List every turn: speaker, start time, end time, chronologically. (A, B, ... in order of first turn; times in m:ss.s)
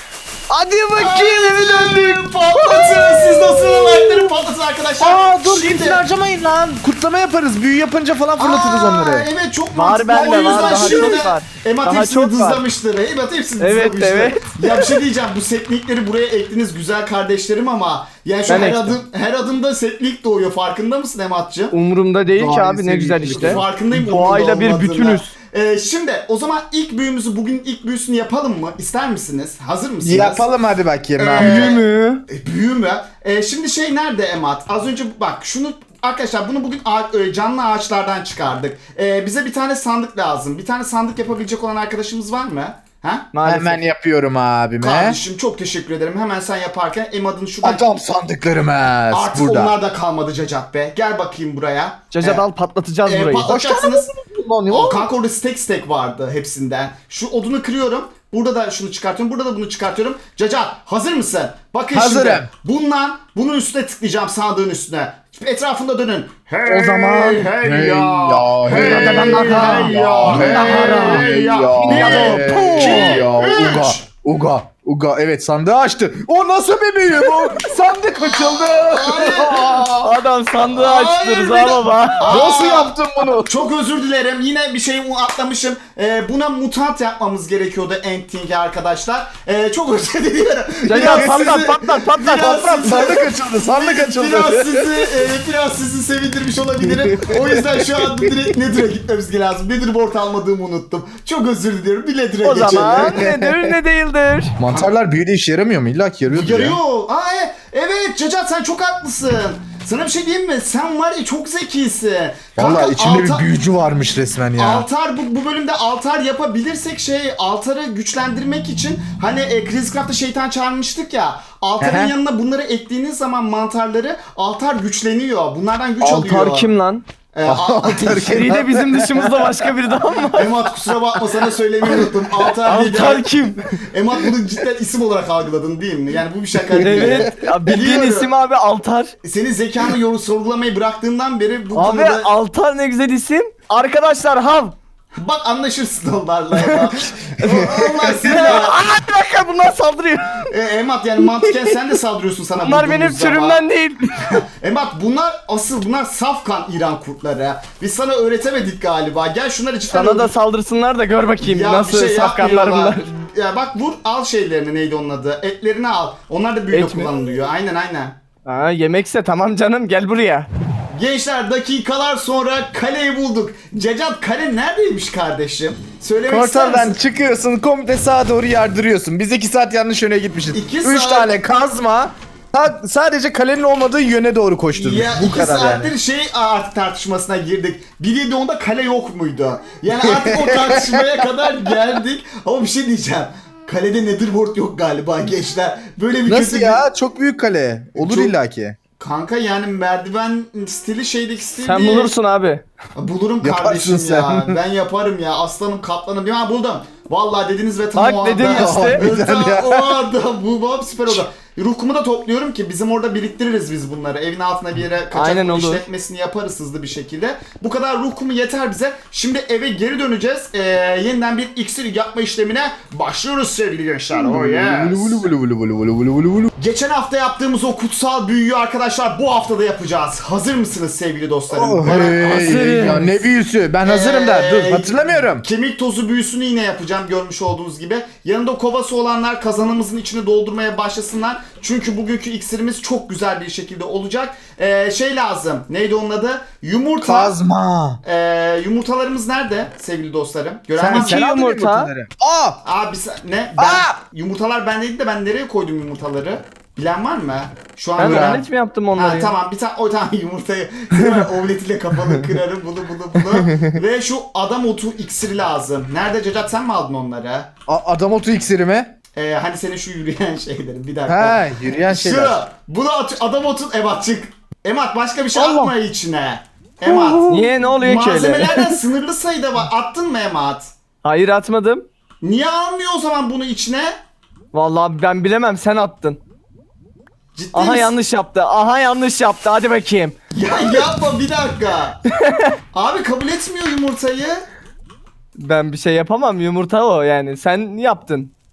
0:00.5-0:04.3 A
0:00.9-0:06.0 B
0:05.0-0:09.3 A
0:08.4-0:21.8 B
0:09.7-0:12.6 C
0:10.2-0:11.2 A
0:13.6-0:15.0 C
0:18.5-0:19.0 C
0:21.7-0:25.3 C
0:22.3-0:23.8 A
0:23.3-0:30.5 B
0:30.0-0:31.8 A
0:31.2-0:43.3 B
0:31.3-0:32.2 C
0:43.3-0:43.8 C
0:43.4-0:45.2 A
0:44.8-0:47.9 B
0:47.6-0:49.7 A
0:49.1-0:52.4 B
0:52.1-0:53.5 C
0:53.1-0:54.1 B
0:53.5-0:55.1 A
0:54.7-1:14.1 B
1:01.9-1:02.5 A
1:06.6-1:20.2 A
1:08.7-1:11.3 C
1:11.8-1:13.3 C
1:18.2-1:19.9 B
1:20.0-1:22.5 C
1:20.7-1:43.3 B
1:22.2-1:23.6 A
1:30.8-1:32.5 C
1:31.0-1:31.6 A
1:32.4-1:35.1 A
1:36.8-1:38.4 A
1:42.4-1:44.6 C
1:43.2-1:43.6 A
1:44.6-1:46.8 A
1:46.3-1:53.5 B
1:52.6-1:54.9 A
1:54.6-2:06.7 B
2:01.8-2:02.1 A
2:06.0-2:07.0 C
2:07.3-2:08.6 B
2:07.5-2:09.7 A
2:08.2-2:10.5 C
2:10.3-2:13.3 B
2:12.6-2:13.7 C
2:13.9-2:18.3 B
2:16.8-2:19.1 C
2:19.2-2:22.3 B
2:21.7-2:24.8 C
2:25.1-2:28.8 B
2:26.6-2:30.5 C
2:30.5-2:33.6 B
2:32.6-2:34.4 C
2:34.3-2:40.3 B
2:39.9-2:43.1 C
2:41.4-2:48.2 B
2:46.7-2:47.1 C
2:48.4-2:50.5 C
2:50.9-2:57.0 B
2:56.3-3:05.9 A
3:00.5-3:01.4 B
3:04.7-3:16.8 B
3:09.9-3:11.5 A
3:16.3-3:18.8 A
3:18.0-3:18.4 B
3:19.0-3:22.1 B
3:21.6-3:22.6 C
3:23.0-3:45.2 B
3:23.4-3:24.6 A
3:28.0-3:29.0 C
3:28.4-3:30.0 A
3:35.1-3:35.8 C
3:44.1-3:46.5 A
3:46.6-3:52.9 B
3:51.5-3:55.4 A
3:52.1-3:53.2 C
3:53.8-4:07.4 B
4:07.0-4:08.0 A
4:08.0-4:11.2 B
4:10.8-4:12.6 A
4:10.9-4:11.9 C
4:12.6-4:27.5 B
4:13.6-4:14.0 A
4:18.0-4:19.3 C
4:18.0-4:18.4 A
4:20.9-4:21.3 C
4:23.2-4:23.8 C
4:27.7-4:28.9 A
4:29.2-4:40.7 B
4:31.1-4:32.4 A
4:35.3-4:35.7 C
4:36.9-4:38.8 C
4:41.0-4:41.9 C
4:42.2-4:43.9 B
4:44.5-4:46.2 C
4:47.4-4:47.9 B
4:47.5-4:50.2 C
4:50.3-4:52.0 B
4:52.2-4:52.5 C
4:52.7-4:54.4 B
4:55.4-4:58.3 C